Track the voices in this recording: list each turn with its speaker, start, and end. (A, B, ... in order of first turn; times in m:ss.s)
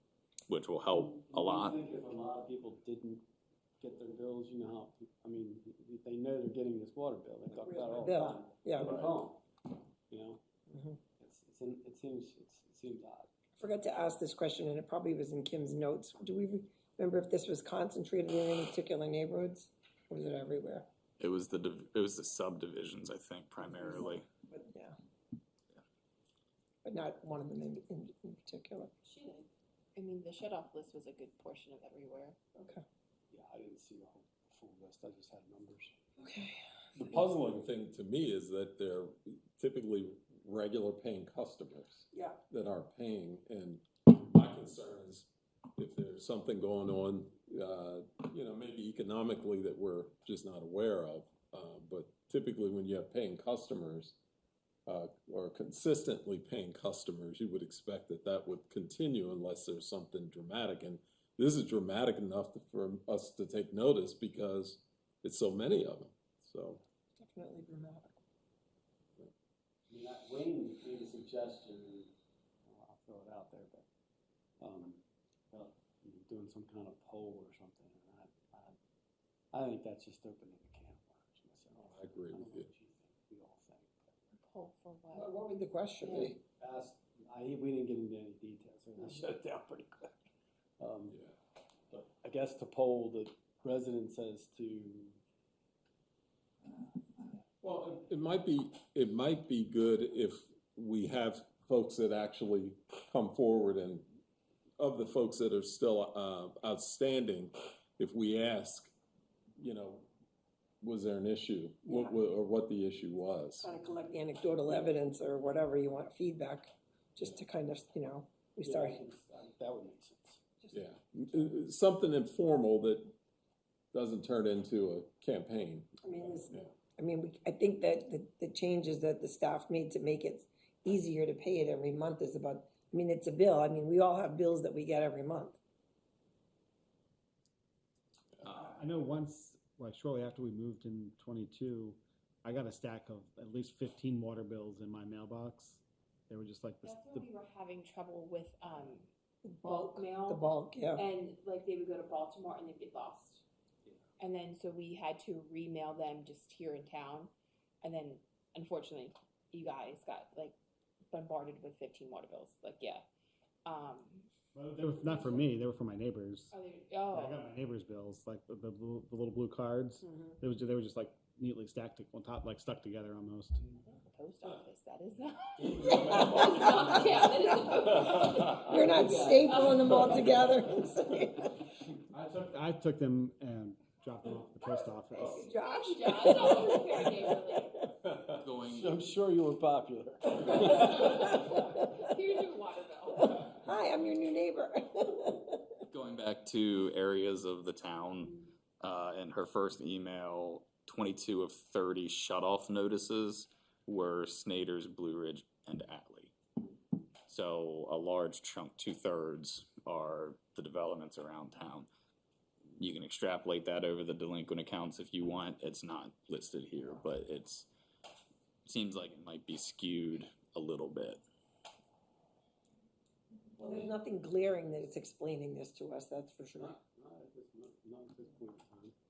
0:00.5-0:01.8 A
0:01.0-0:03.2 B
0:03.8-0:10.4 B
0:07.6-0:09.0 C
0:10.7-0:11.0 C
0:11.2-0:13.3 B
0:13.6-0:20.9 C
0:21.2-0:24.2 A
0:23.6-0:25.0 C
0:26.8-0:28.9 C
0:29.0-0:32.4 D
0:32.6-0:32.8 C
0:33.3-0:36.0 B
0:36.2-0:37.0 C
0:37.0-0:54.2 E
0:42.1-0:42.4 C
0:54.9-1:06.8 E
1:07.2-1:08.2 C
1:09.9-1:12.1 B
1:12.7-1:13.8 B
1:14.6-1:18.8 B
1:19.5-1:24.2 B
1:21.8-1:22.6 E
1:24.3-1:25.3 D
1:25.1-1:26.4 C
1:26.0-1:26.3 D
1:26.1-1:30.1 B
1:30.8-1:31.2 B
1:31.9-1:35.2 B
1:37.6-1:44.1 E
1:44.8-1:48.9 E
1:49.6-1:50.1 E
1:50.8-1:53.7 E
1:51.9-1:52.2 C
1:53.6-1:59.0 C
1:58.6-2:00.4 B
2:00.7-2:03.1 E
2:03.9-2:05.9 E
2:06.0-2:15.6 C
2:18.6-2:27.3 F
2:26.8-2:29.1 D
2:29.4-2:31.0 C
2:29.6-2:33.4 D
2:34.2-2:40.6 D
2:41.1-2:43.0 D
2:43.7-2:44.3 D
2:44.5-2:46.6 F
2:45.0-2:45.5 D
2:46.5-2:47.4 D
2:47.1-2:53.6 F
2:53.7-2:58.6 D
2:55.6-2:57.3 E
2:55.9-2:56.6 C
2:58.6-3:01.6 C
2:58.8-2:59.6 B
2:59.4-3:00.0 D
3:02.1-3:05.5 F
3:05.2-3:06.8 C
3:05.5-3:07.8 D
3:08.3-3:08.9 A
3:08.6-3:11.3 B
3:10.6-3:13.5 D
3:13.2-3:15.8 C
3:15.9-3:26.3 A
3:27.3-3:31.9 A
3:32.8-3:37.7 A
3:38.6-3:41.2 A
3:43.6-3:46.8 C
3:46.6-3:48.9 B